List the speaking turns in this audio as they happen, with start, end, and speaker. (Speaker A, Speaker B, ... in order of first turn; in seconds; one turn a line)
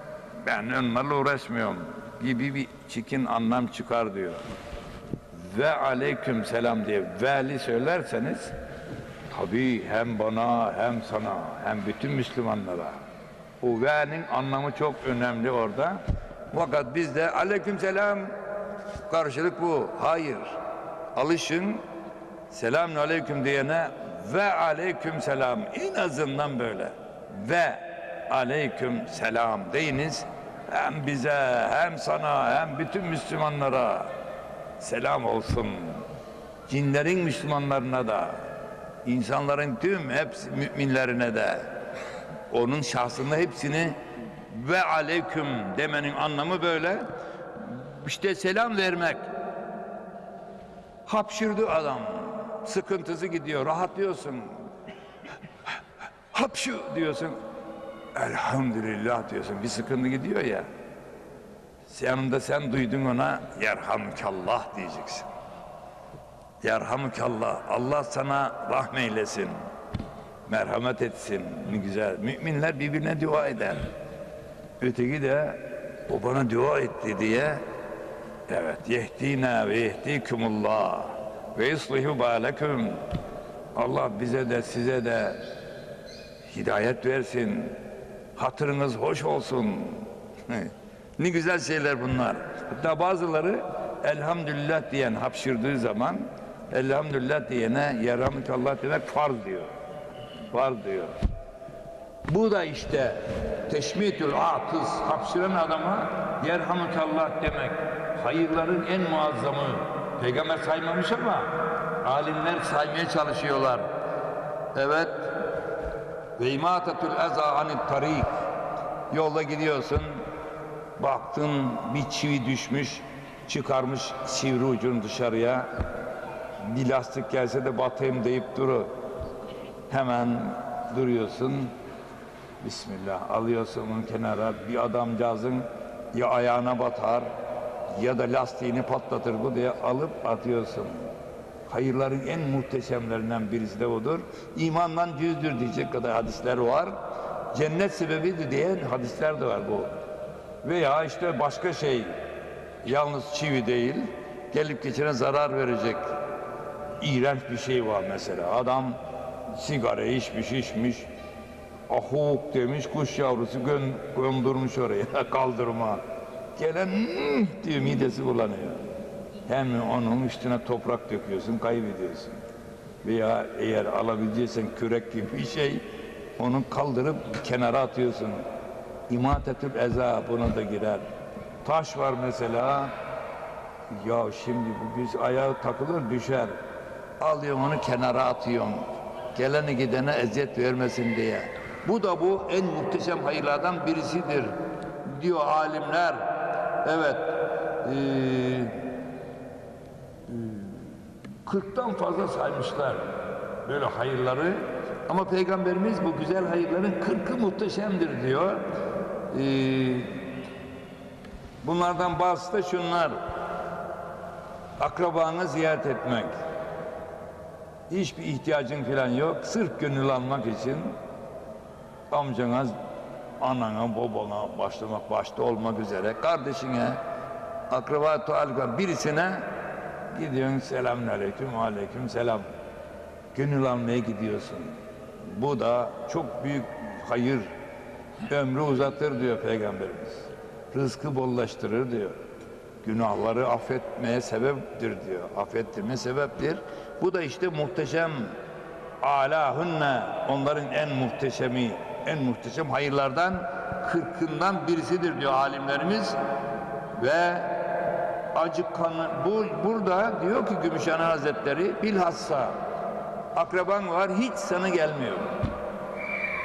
Speaker A: 0.4-4.4
Speaker A: 5.3-8.5
Speaker A: 9.3-13.0
Speaker A: 13.6-18.4
Speaker A: 19.1-20.6
Speaker A: 21.1-21.8
Speaker A: 22.5-34.1
Speaker A: 34.8-36.0
Speaker A: 36.7-38.5
Speaker A: 39.0-41.7
Speaker A: 42.5-49.3
Speaker A: 51.0-54.6
Speaker A: 56.3-57.4
Speaker A: 58.1-60.7
Speaker A: 61.9-65.3
Speaker A: 66.6-69.6
Speaker A: 70.5-73.9
Speaker A: 74.8-77.6
Speaker A: 78.5-83.0
Speaker A: 83.7-85.4
Speaker A: 86.5-87.8
Speaker A: 88.3-99.7
Speaker A: 100.5-101.1
Speaker A: 102.3-113.9
Speaker A: 114.7-115.3
Speaker A: 116.4-118.4
Speaker A: 119.1-120.2
Speaker A: 121.0-125.7
Speaker A: 126.6-128.9
Speaker A: 129.9-131.7
Speaker A: 132.6-137.3
Speaker A: 137.9-141.1
Speaker A: 141.7-147.0
Speaker A: 147.5-149.9
Speaker A: 150.6-152.2
Speaker A: 152.8-156.1
Speaker A: 157.0-161.1
Speaker A: 161.9-166.0
Speaker A: 166.6-168.9
Speaker A: 169.4-172.4
Speaker A: 173.0-175.8
Speaker A: 176.4-178.4
Speaker A: 179.1-181.1
Speaker A: 181.6-182.9
Speaker A: 183.9-186.6
Speaker A: 187.2-196.3
Speaker A: 196.8-198.8
Speaker A: 200.3-203.1
Speaker A: 203.6-208.6
Speaker A: 209.3-210.2
Speaker A: 211.6-213.2
Speaker A: 214.8-216.3
Speaker A: 217.9-221.0
Speaker A: 222.1-222.7
Speaker A: 223.4-227.0
Speaker A: 227.7-229.5
Speaker A: 230.1-232.5
Speaker A: 233.3-237.5
Speaker A: 238.3-242.2
Speaker A: 242.8-248.3
Speaker A: 249.0-256.2
Speaker A: 256.9-257.6
Speaker A: 258.3-262.6
Speaker A: 263.3-265.4